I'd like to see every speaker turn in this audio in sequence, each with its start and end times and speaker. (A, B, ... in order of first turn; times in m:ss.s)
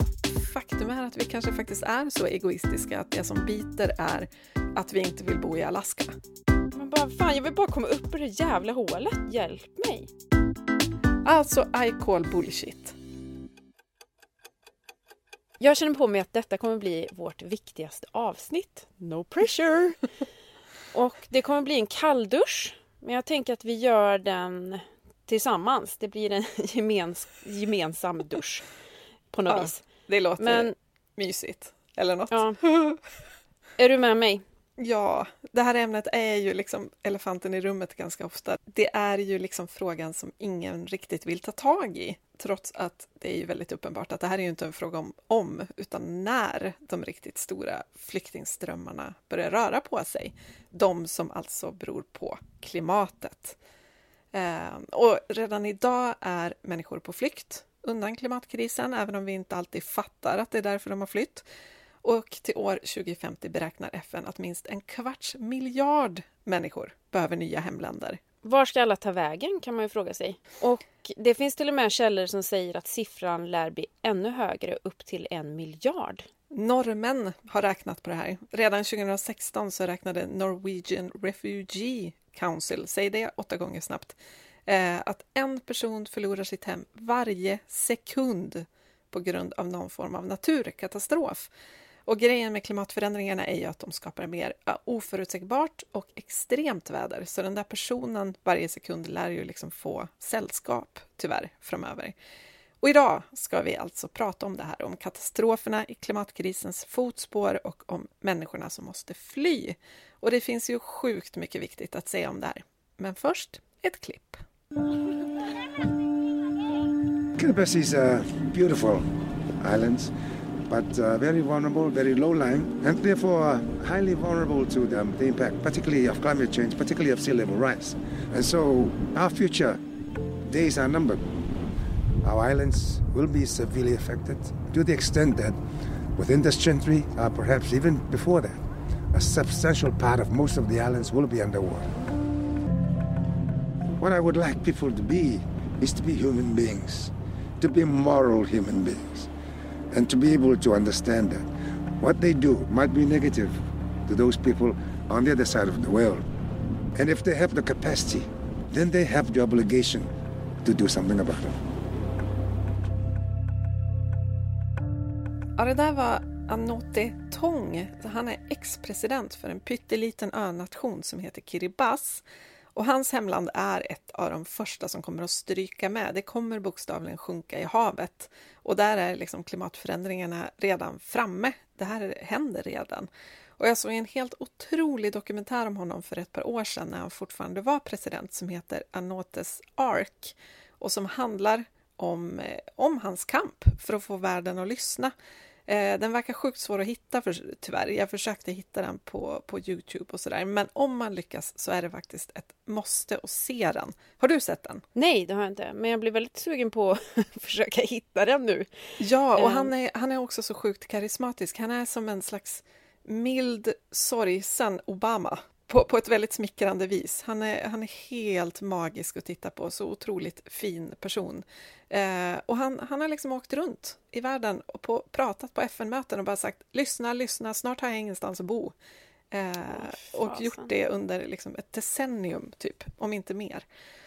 0:00.3-0:06.1 A
0:06.7-0:10.1 B
0:11.2-0:12.9 A
0:15.6-0:20.0 B
0:20.9-0:28.7 B
0:29.3-0:30.7 B
0:29.5-0:33.0 A
0:32.3-0:32.6 B
0:33.8-0:34.4 B
0:34.8-0:53.6 A
0:54.3-1:01.4 A
1:02.0-1:08.2 A
1:08.4-1:16.3 B
1:16.5-1:31.5 A
1:32.1-1:42.1 A
1:42.8-1:54.4 A
1:57.4-1:59.1 C
1:59.6-2:00.1 C
2:00.7-2:09.8 C
2:10.4-2:11.2 C
2:12.2-2:15.6 C
2:16.2-2:21.9 C
2:24.0-2:29.3 C
2:29.9-2:31.4 C
2:32.0-2:36.3 C
2:36.9-2:40.1 C
2:40.6-2:41.6 C
2:45.6-2:52.2 A
2:52.7-3:15.1 A
3:15.7-3:24.8 A
3:24.9-3:29.7 B
3:29.0-3:48.7 A
3:49.3-3:53.6 A
3:49.7-3:50.7 B